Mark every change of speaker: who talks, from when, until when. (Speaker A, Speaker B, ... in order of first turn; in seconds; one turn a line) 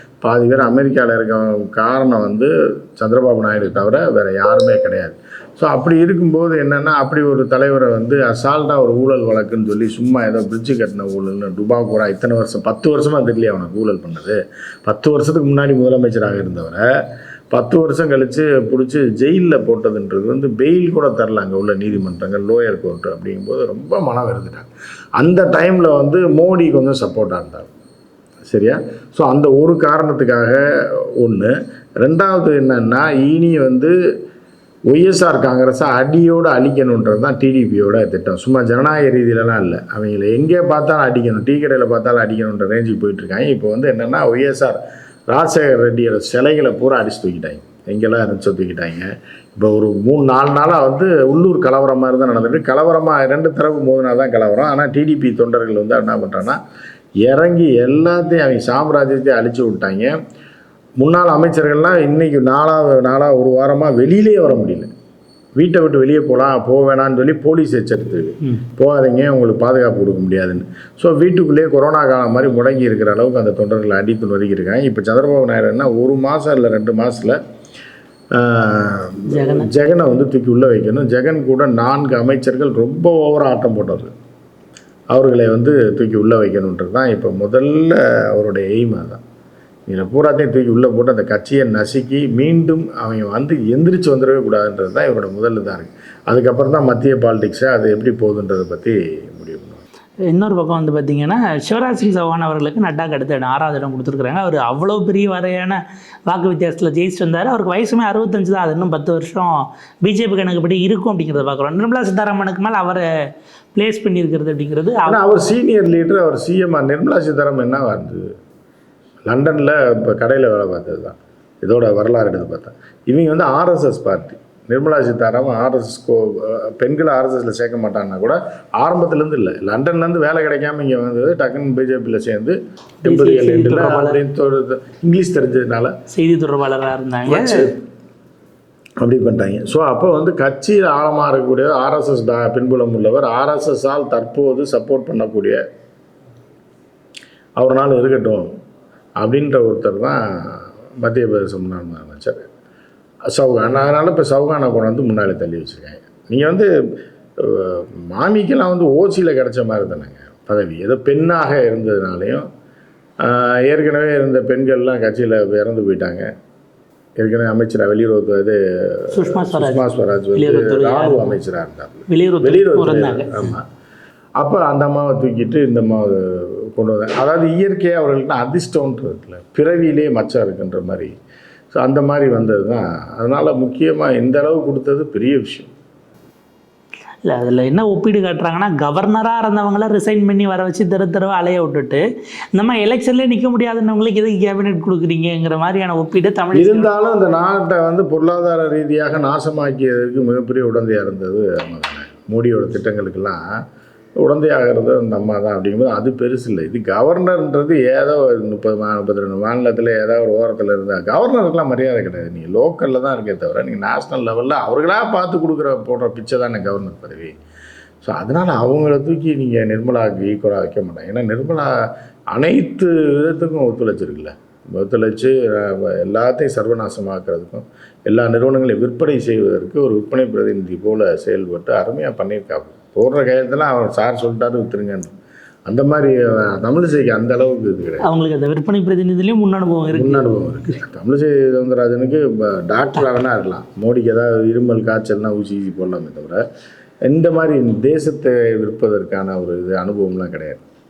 Speaker A: 0.2-16.8
Speaker A: 17.5-27.7
Speaker A: 28.4-30.6
Speaker A: 31.2-33.9
Speaker A: 34.9-56.6
Speaker A: 57.2-60.1
Speaker A: 61.0-64.9
Speaker A: 65.6-77.4
Speaker A: 78.3-84.1
Speaker B: 79.3-79.7
Speaker A: 85.1-89.2
Speaker A: 89.9-99.8
Speaker B: 100.3-109.5
Speaker B: 110.0-113.0
Speaker B: 113.7-115.2
Speaker A: 115.0-118.3
Speaker A: 119.3-135.9
Speaker B: 133.0-134.2
Speaker B: 136.1-137.7
Speaker A: 137.3-137.7
Speaker A: 139.0-145.6
Speaker A: 147.6-148.5
Speaker A: 149.2-152.4
Speaker A: 153.3-156.7
Speaker A: 157.4-162.4
Speaker A: 163.2-166.3
Speaker A: 167.2-173.6
Speaker B: 169.1-171.3
Speaker B: 172.1-173.5
Speaker A: 174.4-181.1
Speaker A: 181.7-185.7
Speaker B: 187.2-192.0
Speaker B: 192.5-196.9
Speaker A: 196.5-203.4
Speaker A: 204.2-217.3
Speaker A: 218.0-221.7
Speaker A: 222.3-235.1
Speaker A: 235.7-238.1
Speaker B: 238.0-240.7
Speaker A: 239.9-246.4
Speaker A: 247.1-250.6